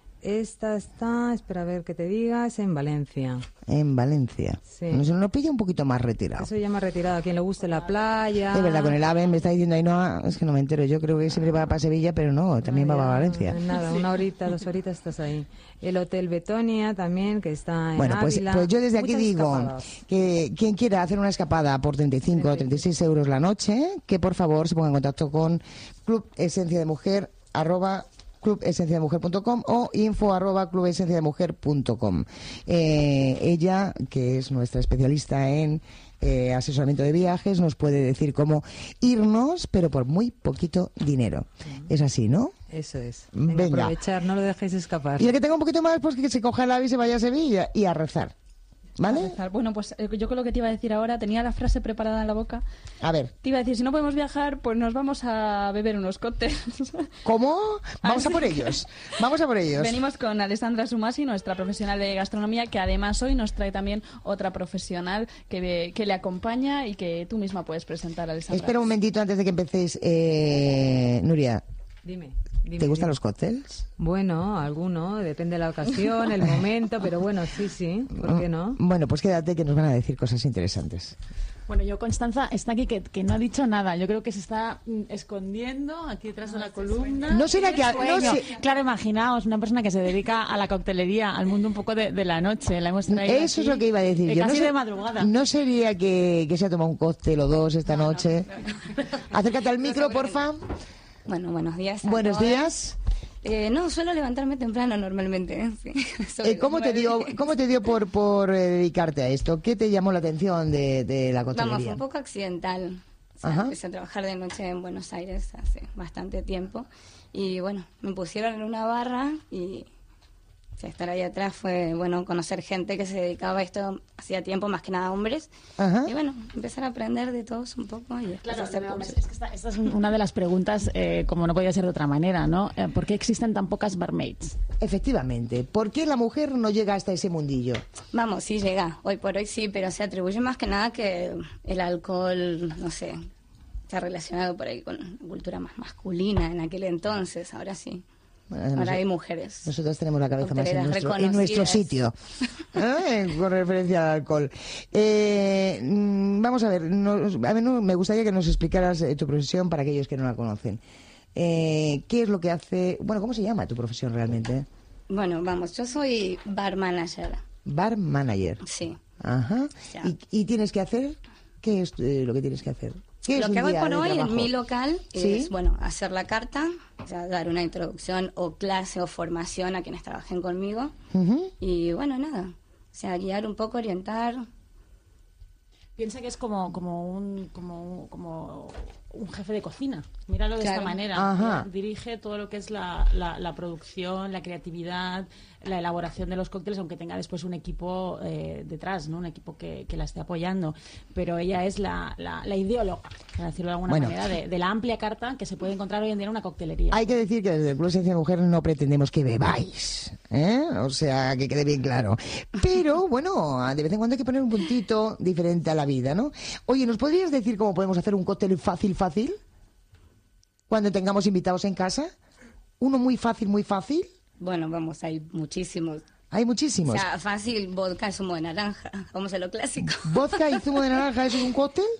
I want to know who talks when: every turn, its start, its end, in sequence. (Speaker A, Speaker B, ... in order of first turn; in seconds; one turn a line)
Speaker A: 0.2-3.5
Speaker B: 3.7-6.5
Speaker A: 4.7-5.0
Speaker A: 6.4-9.0
Speaker B: 8.5-13.6
Speaker A: 12.6-19.9
Speaker B: 17.9-42.5
Speaker A: 22.3-22.8
Speaker A: 42.7-45.3
Speaker B: 43.3-44.0
Speaker B: 45.2-48.3
Speaker B: 49.0-49.3
Speaker C: 49.0-52.6
Speaker B: 53.0-53.3
Speaker C: 53.4-57.1
Speaker B: 57.2-60.0
Speaker C: 58.0-58.8
Speaker C: 59.8-68.8
Speaker B: 68.5-71.6
Speaker A: 72.0-73.1
Speaker B: 72.8-73.7
Speaker A: 74.0-78.8
Speaker B: 78.2-81.2
Speaker D: 81.7-95.3
Speaker B: 87.3-88.5
Speaker B: 93.1-98.6
Speaker B: 99.3-100.6
Speaker E: 99.8-100.4
Speaker E: 101.2-102.7
Speaker B: 102.0-103.0
Speaker E: 103.4-107.4
Speaker B: 106.4-112.0
Speaker E: 111.5-119.9
Speaker B: 113.4-113.8
Speaker E: 120.8-125.5
Speaker B: 125.8-126.1
Speaker E: 126.0-129.2
Speaker D: 128.4-134.6
Speaker B: 134.8-137.8
Speaker E: 138.1-143.3
Speaker E: 143.9-148.0
Speaker B: 148.5-149.0
Speaker E: 148.7-149.7
Speaker B: 149.6-152.1
Speaker E: 150.4-151.9
Speaker B: 152.7-160.8
Speaker B: 161.3-164.7
Speaker E: 165.1-167.4
Speaker B: 167.6-168.6
Speaker E: 168.6-169.0
Speaker B: 169.2-174.5
Speaker E: 173.3-180.9
Speaker B: 175.1-175.5
Speaker B: 181.1-181.5
Speaker E: 181.6-184.4
Speaker D: 186.0-207.0
Speaker E: 190.6-191.0
Speaker B: 191.1-191.7
Speaker B: 203.9-204.2
Speaker B: 206.9-219.4
Speaker B: 220.7-222.1
Speaker B: 222.8-224.1
Speaker E: 224.4-226.0
Speaker B: 226.3-227.1
Speaker E: 226.9-230.7
Speaker B: 230.0-231.9